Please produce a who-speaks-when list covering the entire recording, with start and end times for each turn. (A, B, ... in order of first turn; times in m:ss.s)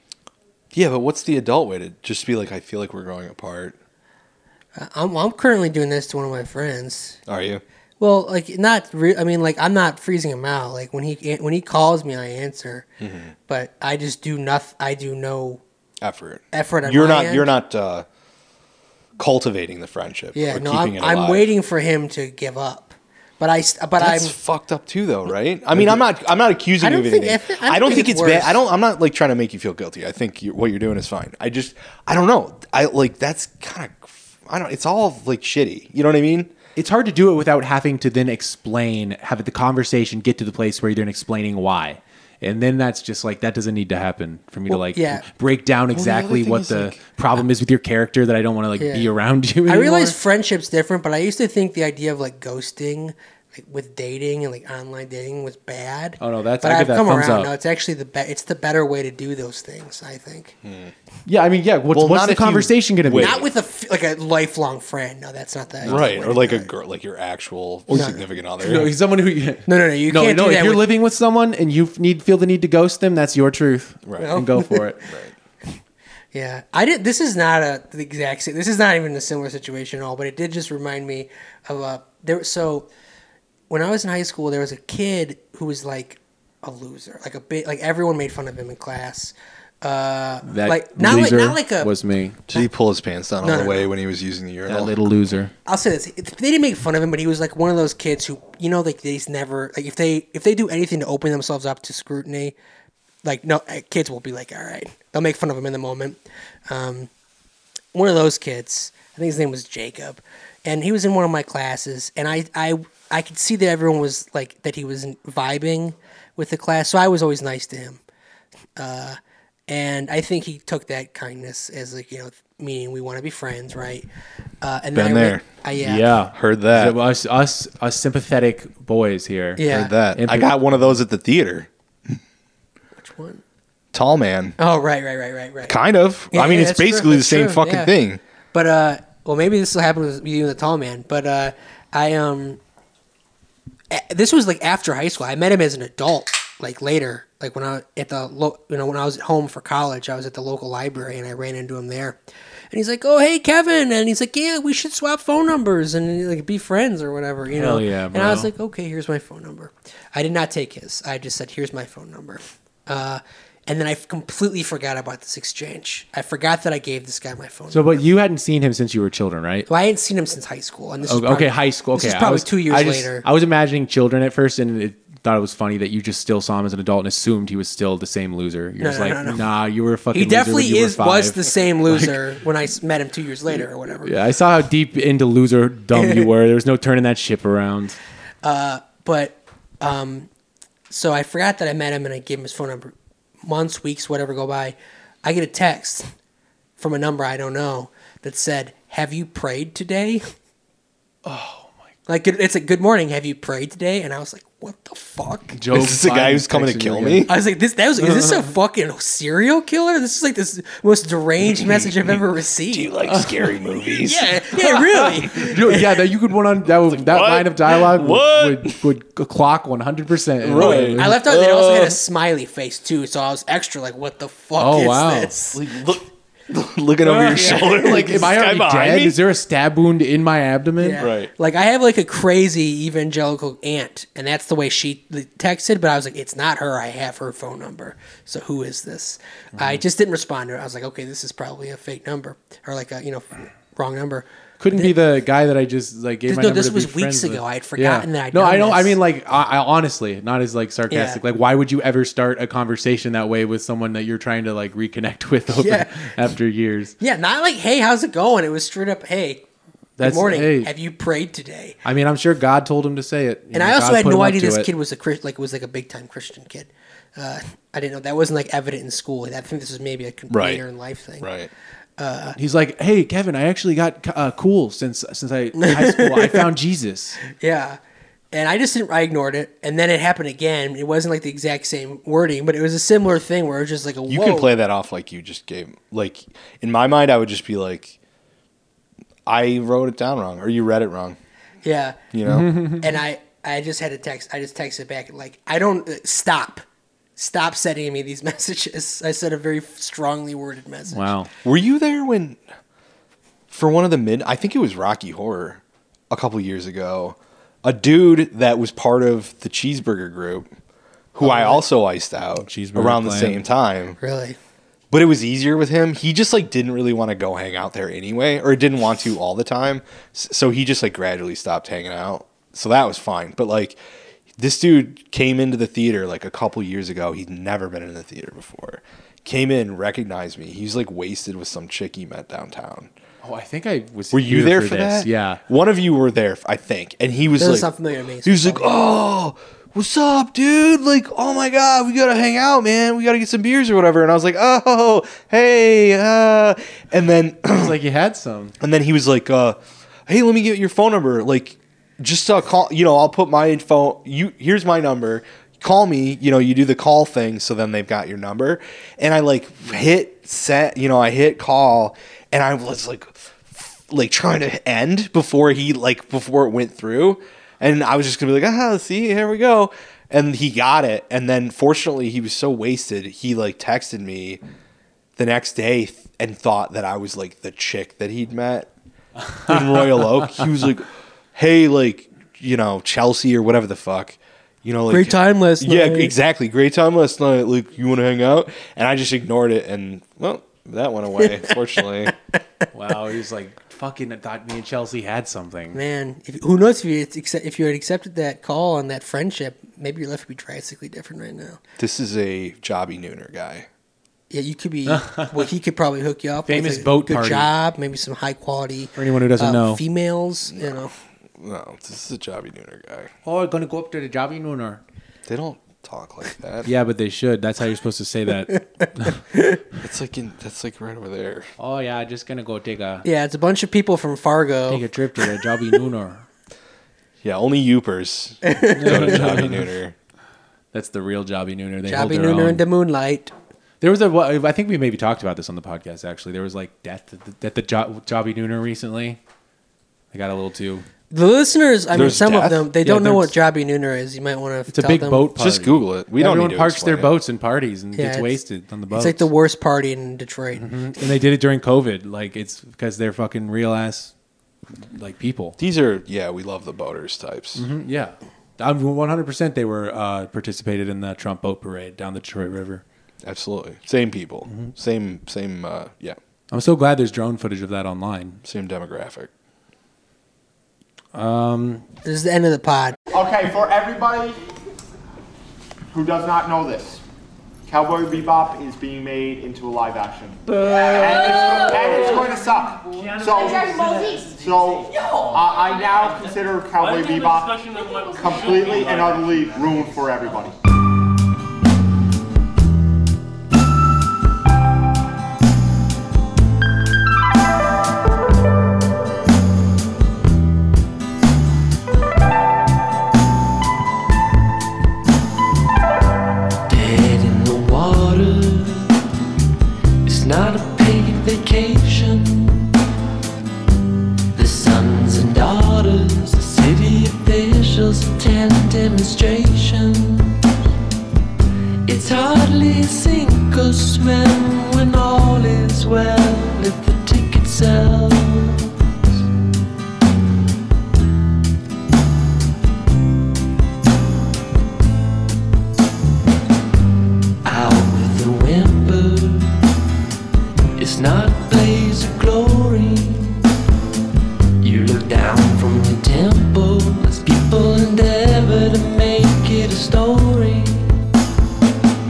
0:00.7-0:03.8 A
0:04.8-0:07.2 B
0:07.3-0:07.6 A
0:08.0-0:12.9 B
0:13.0-0:13.3 A
0:13.5-0:15.6 B
0:16.0-0:18.1 A
0:16.5-0:17.5 B
0:19.2-0:21.5 A
0:20.3-0:24.4 B
0:24.0-0:36.5 A
0:26.8-0:28.6 B
0:36.8-0:50.2 C
0:44.7-0:45.2 B
0:45.9-0:47.4 A
0:48.8-0:49.1 B
0:49.7-1:00.6 B
0:56.2-0:57.5 C
1:00.6-1:00.9 A
1:01.3-1:03.4 C
1:01.9-1:03.5 A
1:03.2-1:06.7 B
1:05.8-1:06.1 C
1:05.8-1:08.9 A
1:07.9-1:15.0 C
1:09.7-1:10.9 B
1:14.1-1:14.4 A
1:14.2-1:15.0 B
1:16.3-1:22.9 B
1:23.7-1:31.9 B
1:30.5-1:32.4 C
1:32.5-1:35.0 A
1:33.4-1:33.9 B
1:34.7-1:35.5 C
1:35.7-1:42.6 B
1:43.2-1:47.1 B
1:47.9-1:58.0 B
1:58.8-2:04.1 B
2:04.6-2:06.1 B
2:04.9-2:05.4 A
2:05.8-2:10.6 C
2:06.3-2:07.0 A
2:09.6-2:09.9 B
2:09.6-2:11.7 A
2:13.0-2:13.4 B
2:13.9-2:14.6 A
2:14.6-2:15.8 B
2:15.7-2:18.2 A
2:16.3-2:17.9 B
2:18.5-2:22.6 B
2:23.9-2:32.2 B
2:32.7-2:48.0 B
2:37.5-2:38.5 C
2:47.7-2:49.7 C
2:49.7-2:53.3 B
2:51.1-3:02.2 C
2:58.8-2:59.4 B
3:00.1-3:04.1 B
3:04.0-3:08.0 C
3:06.0-3:06.2 B
3:08.4-3:10.3 B
3:10.9-3:16.1 B
3:16.8-3:20.2 B
3:21.2-3:21.8 C
3:22.1-3:25.6 B
3:25.6-3:27.3 C
3:25.7-3:27.3 A
3:27.3-3:32.9 B
3:28.0-3:28.4 C
3:31.4-3:34.5 A
3:33.1-3:33.6 C
3:34.0-3:35.6 B
3:34.5-3:41.2 C
3:36.9-3:38.8 A
3:40.4-3:42.0 A
3:40.6-3:45.6 B
3:44.6-3:45.4 C
3:45.5-3:49.2 A
3:47.0-3:51.1 C
3:47.4-3:48.3 B
3:50.8-4:04.9 B
3:51.0-3:51.3 A
4:04.6-4:17.0 C
4:06.3-4:09.0 B
4:10.9-4:11.2 B
4:15.5-4:16.1 B
4:17.0-4:19.4 B
4:20.0-4:20.7 C
4:20.0-4:21.8 B
4:21.8-4:24.7 C
4:23.5-4:31.3 B
4:30.3-4:30.6 A
4:31.2-4:31.5 A
4:32.0-4:32.4 B
4:32.4-4:37.2 C
4:35.6-4:36.5 B
4:37.4-4:37.8 B
4:38.3-4:44.5 B
4:44.1-4:48.0 A
4:49.3-4:51.2 A
4:51.6-4:52.0 B
4:52.1-4:52.5 A
4:52.2-4:52.8 C
4:52.8-4:56.6 B
4:57.2-5:01.1 B
5:00.9-5:01.3 C
5:01.4-5:02.4 A
5:03.5-5:10.5 A
5:11.1-5:14.0 A
5:11.2-5:11.6 B
5:12.4-5:13.4 C
5:14.0-5:14.4 B
5:14.9-5:23.8 A
5:24.4-5:32.9 A
5:33.2-5:35.4 C
5:34.1-5:37.7 A
5:37.4-5:38.7 B
5:38.2-5:47.8 A
5:47.5-5:48.6 C
5:48.6-6:14.4 A
6:15.2-6:18.7 A
6:19.4-6:32.1 A
6:24.9-6:26.1 B
6:32.7-6:35.8 C
6:35.7-6:41.6 B
6:41.8-6:43.7 A
6:44.3-6:50.9 B
6:44.9-6:45.5 C
6:46.5-6:47.5 C
6:49.0-6:49.8 C
6:51.4-6:53.1 A
6:53.2-6:54.8 C
6:55.3-6:56.7 A
6:56.6-6:59.2 C
6:59.8-7:01.5 A
7:01.6-7:03.0 C
7:03.0-7:04.8 B
7:04.7-7:06.2 C
7:07.2-7:10.0 A
7:08.4-7:09.2 B
7:08.8-7:09.7 C
7:10.7-7:12.6 C
7:11.9-7:13.3 B
7:13.8-7:19.2 C
7:20.1-7:20.9 C
7:21.1-7:25.3 B
7:21.9-7:23.4 C
7:21.9-7:22.6 A
7:24.7-7:29.3 C
7:25.4-7:27.1 A
7:28.0-7:28.4 B
7:28.9-7:30.7 B
7:30.6-7:34.1 C
7:34.8-7:35.6 C
7:35.6-7:37.7 A
7:37.6-7:42.8 C
7:43.2-7:46.2 A
7:46.5-7:48.4 C
7:48.4-7:49.3 A
7:51.2-7:51.8 C
7:52.0-7:53.0 B
7:53.1-7:54.4 D
7:55.9-7:57.0 D
7:57.7-8:10.6 D
8:26.7-8:28.9 E
8:30.0-8:32.7 E
8:34.3-8:40.4 E
8:41.9-8:49.2 E
8:57.4-8:59.5 E
9:00.8-9:03.5 E
9:04.6-9:11.0 E